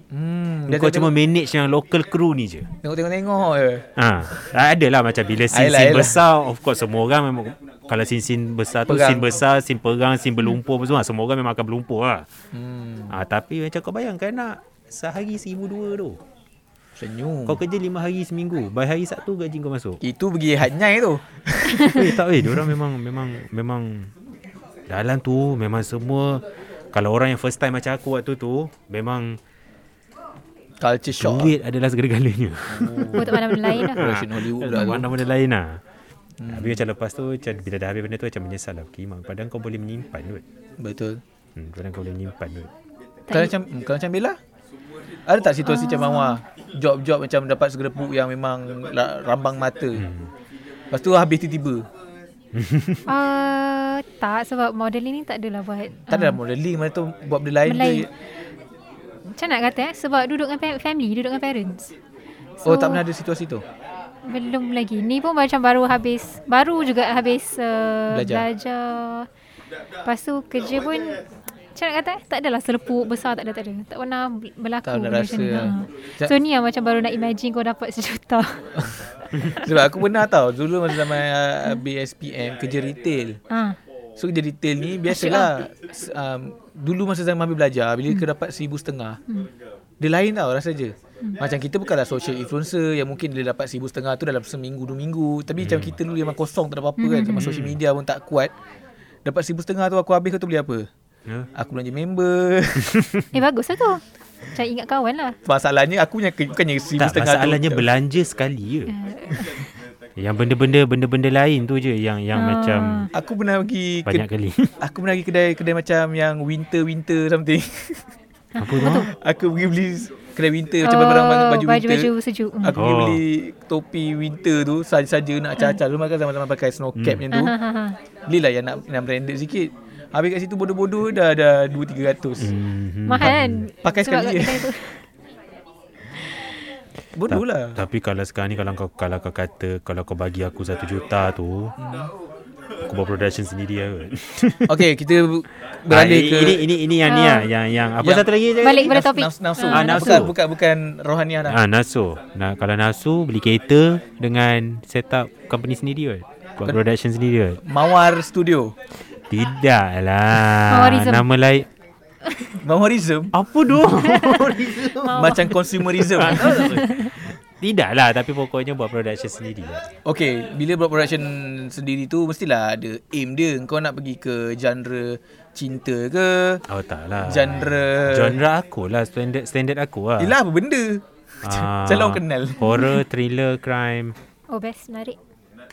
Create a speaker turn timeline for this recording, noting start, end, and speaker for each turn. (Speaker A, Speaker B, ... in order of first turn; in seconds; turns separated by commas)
Speaker A: 0.1-1.1, Speaker B: 0.7-2.7, Speaker A: 2.8-3.9, Speaker B: 4.0-12.3, Speaker A: 5.5-6.2, Speaker A: 8.9-9.3, Speaker A: 12.5-13.2, Speaker B: 13.1-16.2, Speaker A: 17.0-17.6, Speaker B: 17.5-20.0, Speaker A: 20.0-22.6, Speaker B: 21.8-24.1, Speaker B: 24.9-29.4, Speaker A: 30.8-31.6, Speaker B: 31.1-35.8, Speaker A: 32.7-35.1, Speaker C: 33.1-34.0, Speaker A: 36.4-36.8, Speaker B: 36.5-40.4, Speaker A: 40.8-41.2, Speaker B: 41.6-42.7, Speaker A: 43.3-44.4, Speaker A: 45.3-50.1, Speaker C: 45.6-46.4, Speaker B: 50.0-50.3, Speaker A: 50.9-51.9, Speaker B: 52.5-53.0, Speaker C: 53.1-56.4, Speaker A: 56.1-58.1, Speaker C: 57.7-58.2, Speaker C: 59.3-61.9, Speaker C: 62.6-63.0, Speaker A: 62.6-63.6, Speaker C: 64.2-69.3, Speaker A: 68.1-68.5, Speaker C: 70.0-71.2, Speaker C: 71.8-78.8, Speaker A: 74.8-76.3, Speaker A: 78.8-83.4, Speaker C: 79.4-79.8, Speaker C: 81.1-81.8, Speaker C: 83.5-83.8, Speaker A: 84.2-89.2, Speaker C: 85.1-85.6, Speaker A: 90.0-98.5, Speaker B: 95.6-96.0, Speaker C: 97.0-97.5, Speaker B: 97.4-97.8, Speaker A: 99.2-100.9, Speaker A: 101.5-103.0, Speaker B: 102.8-103.3, Speaker C: 103.3-105.4, Speaker A: 105.5-107.9, Speaker B: 107.0-108.9, Speaker C: 108.9-109.7, Speaker B: 110.2-113.1, Speaker C: 112.3-113.1, Speaker A: 113.1-114.3, Speaker B: 114.1-114.8, Speaker A: 114.8-118.1, Speaker C: 118.5-119.1, Speaker B: 118.6-119.1, Speaker A: 118.8-122.1, Speaker C: 120.8-122.8, Speaker A: 122.6-127.5, Speaker B: 122.8-123.2, Speaker B: 127.0-127.2, Speaker C: 127.3-128.0, Speaker A: 128.3-132.5, Speaker B: 132.4-133.7, Speaker C: 133.1-135.0, Speaker A: 133.8-134.7, Speaker A: 137.1-137.8, Speaker B: 137.3-141.7, Speaker A: 141.8-142.1, Speaker B: 142.8-144.9, Speaker A: 144.7-146.7, Speaker B: 145.9-148.9, Speaker C: 147.1-147.5, Speaker A: 148.0-151.6, Speaker C: 148.6-150.3, Speaker B: 149.7-150.4, Speaker B: 151.5-157.6, Speaker A: 157.6-158.7, Speaker B: 159.3-161.7, Speaker C: 160.7-161.3, Speaker A: 162.6-163.3, Speaker B: 163.3-169.8, Speaker C: 163.9-165.5, Speaker A: 165.1-166.8, Speaker C: 166.4-167.1, Speaker A: 170.1-176.6, Speaker B: 176.7-180.4, Speaker A: 177.2-178.4, Speaker A: 180.2-182.7, Speaker B: 181.4-184.2, Speaker C: 182.6-183.0, Speaker C: 184.5-185.2